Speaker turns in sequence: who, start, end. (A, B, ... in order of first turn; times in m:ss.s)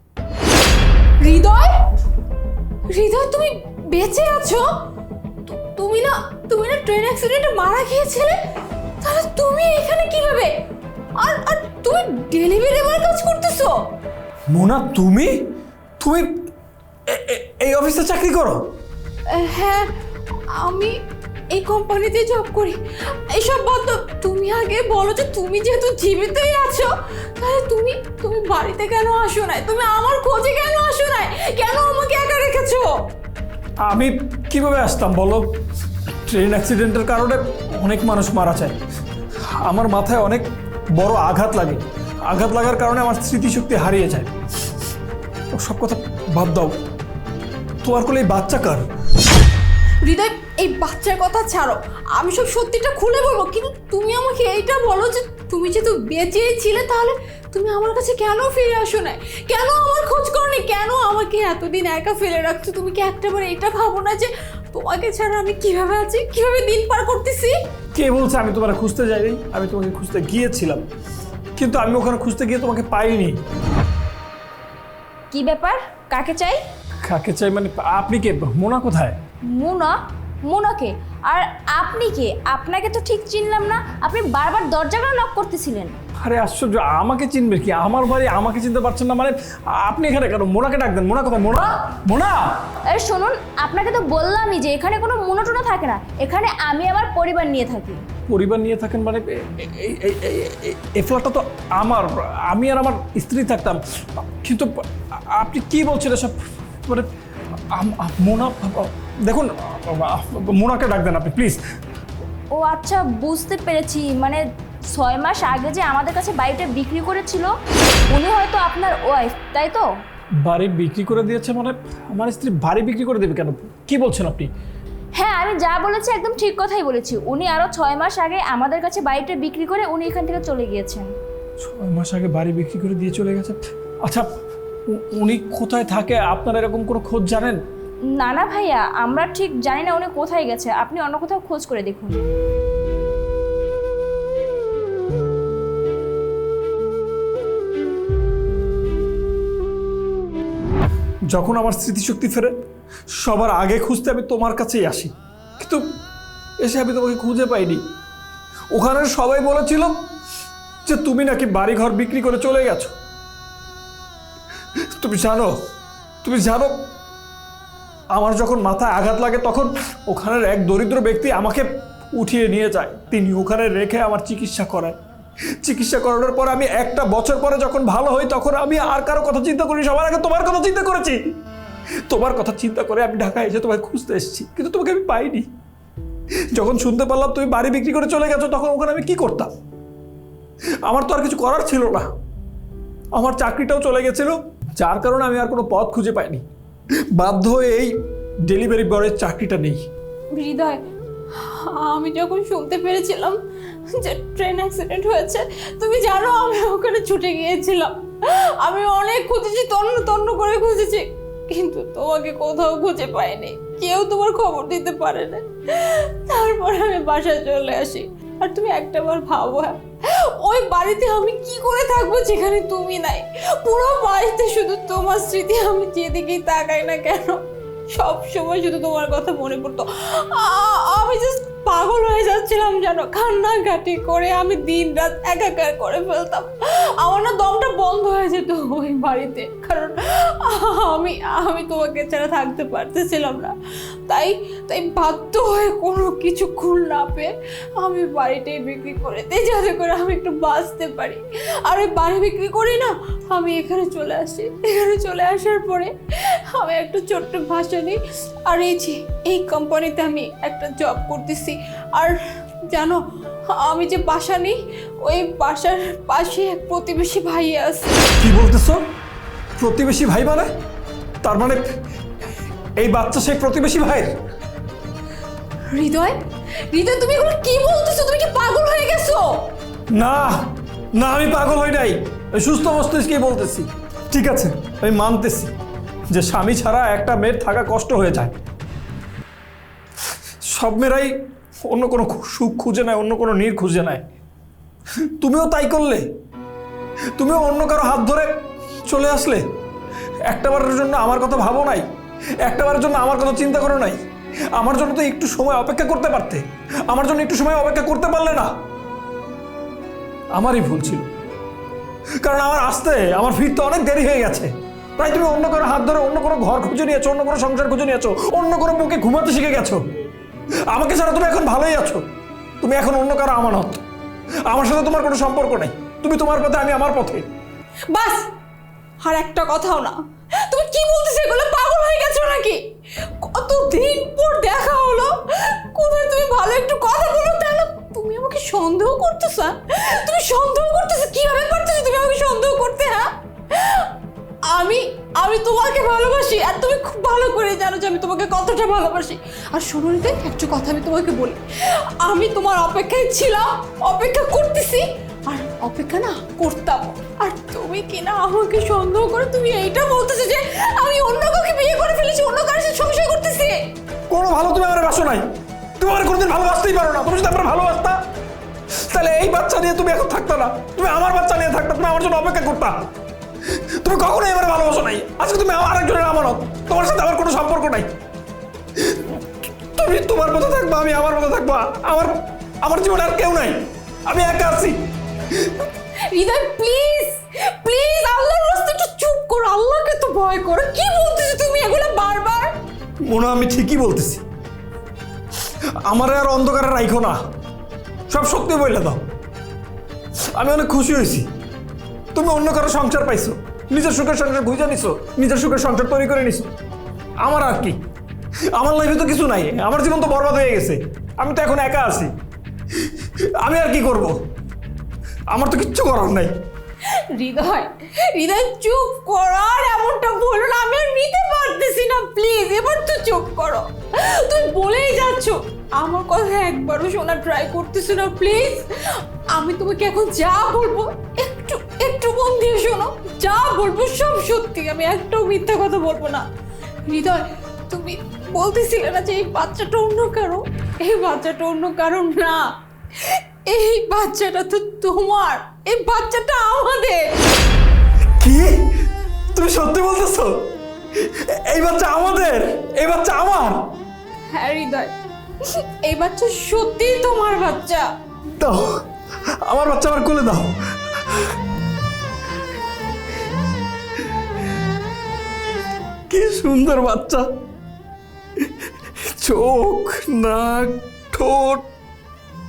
0:01.2-0:01.9 A
0:02.9-0:04.6 A
0:05.4-0:08.4 A
0:09.0-0:10.5 A
0:11.2-0:13.8 A
0:14.5-0:15.4 B
0:16.0-0:16.4 B
0:17.1-0:18.6 B
0:19.3-0:19.9 A
0:20.5-0:21.0 A
0:21.5-0:32.9 A
0:33.8-0:35.6 B
0:36.3-0:38.8 B
0:39.4-0:44.3 B
0:45.5-0:46.8 B
0:47.8-0:48.8 B
0:50.0-1:07.6 A
1:07.9-1:10.8 B
1:11.6-1:13.4 B
1:15.3-1:16.6 C
1:17.0-1:19.2 B
1:19.5-1:25.9 C
1:26.2-1:32.7 B
1:32.9-1:38.0 C
1:38.3-1:47.1 B
1:47.7-1:51.6 B
1:52.5-1:54.4 C
1:54.9-1:57.5 C
1:58.1-1:59.8 C
2:00.4-2:04.5 B
2:05.2-2:11.1 C
2:11.6-2:14.2 B
2:14.9-2:17.6 B
2:18.2-2:22.2 C
2:31.3-2:32.6 B
2:33.1-2:35.9 B
2:36.6-2:37.8 B
2:38.7-2:40.0 B
2:40.8-2:42.9 B
2:44.9-2:45.6 B
2:46.2-2:46.8 B
2:48.1-2:55.0 B
2:55.6-3:01.3 B
3:02.0-3:05.5 B
3:06.5-3:09.5 B
3:10.8-3:12.1 B
3:13.1-3:16.4 B
3:17.1-3:17.9 B
3:18.4-3:19.8 B
3:20.3-3:23.4 A
3:23.9-4:03.5 A
4:04.1-4:22.2 A
4:22.7-4:28.0 A
4:28.2-4:28.8 B
4:29.6-4:30.5 B
4:31.2-4:31.6 B
4:32.8-4:34.1 B
4:35.7-4:36.2 A
4:36.7-4:39.5 A
4:39.9-4:45.5 B
4:46.1-4:48.4 B
4:50.5-4:51.1 B
4:51.6-4:54.1 B
4:55.1-4:56.0 B
4:57.2-4:59.4 B
5:00.3-5:01.9 B
5:02.4-5:08.5 B
5:10.3-5:11.1 B
5:12.2-5:19.8 B
5:20.7-5:22.0 B
5:22.6-5:23.8 B
5:24.4-5:27.3 B
5:27.9-5:28.3 A
5:29.0-5:43.9 A
5:44.5-6:03.6 A
6:04.1-6:08.0 B
6:08.7-6:12.8 B
6:13.4-6:17.9 B
6:18.8-6:24.8 B
6:26.1-6:32.6 A
6:33.1-6:34.2 B
6:35.8-6:37.2 B
6:38.1-6:39.0 B
6:40.3-6:41.3 B
6:42.1-6:46.5 B
6:47.2-6:47.8 B
6:48.5-6:52.1 B
6:52.8-6:54.2 B
6:55.3-6:56.3 B
6:56.8-7:16.2 A
7:16.8-7:27.1 A
7:28.2-7:28.8 B
7:29.3-7:33.6 B
7:34.3-7:37.9 A
7:38.4-7:38.8 B
7:39.4-7:40.5 B
7:46.1-7:47.3 B
7:49.0-7:51.6 B